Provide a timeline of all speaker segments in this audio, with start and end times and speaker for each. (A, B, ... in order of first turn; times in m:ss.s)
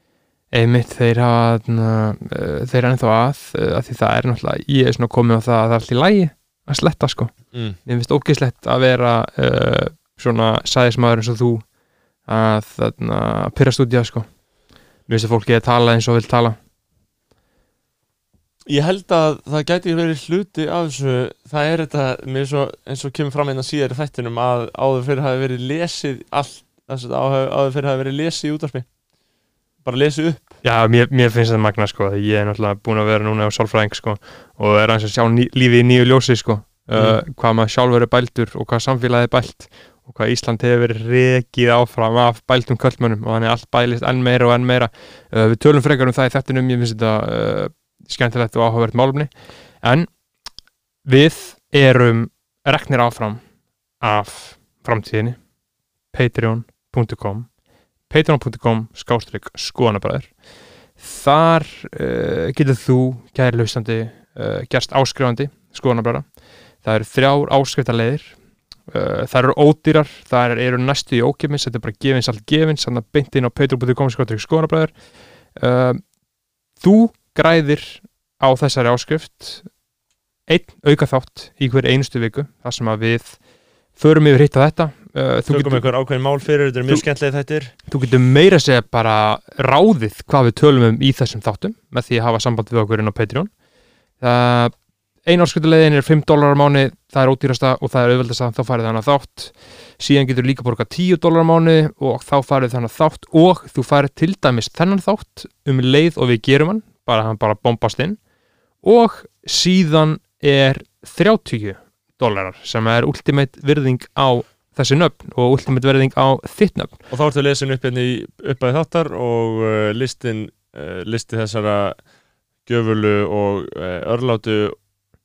0:00.5-0:11.7 A
0:12.3-0:14.3 A
0:15.1-0:16.6 A
0:18.7-0:28.9 B
0:29.8-0:30.5 B
0:30.6-0:50.1 A
0:36.9-0:37.2 B
0:51.0-0:53.4 A
0:54.0-0:55.4 A
0:56.1-0:57.5 A
0:58.1-1:00.4 A
1:01.0-1:16.1 A
1:16.8-1:19.7 A
1:20.5-1:23.4 A
1:24.0-1:25.9 A
1:25.5-1:27.7 B
1:27.9-1:33.5 A
1:34.2-1:48.2 A
1:48.8-1:57.1 A
1:57.1-2:02.0 B
2:02.7-2:04.8 B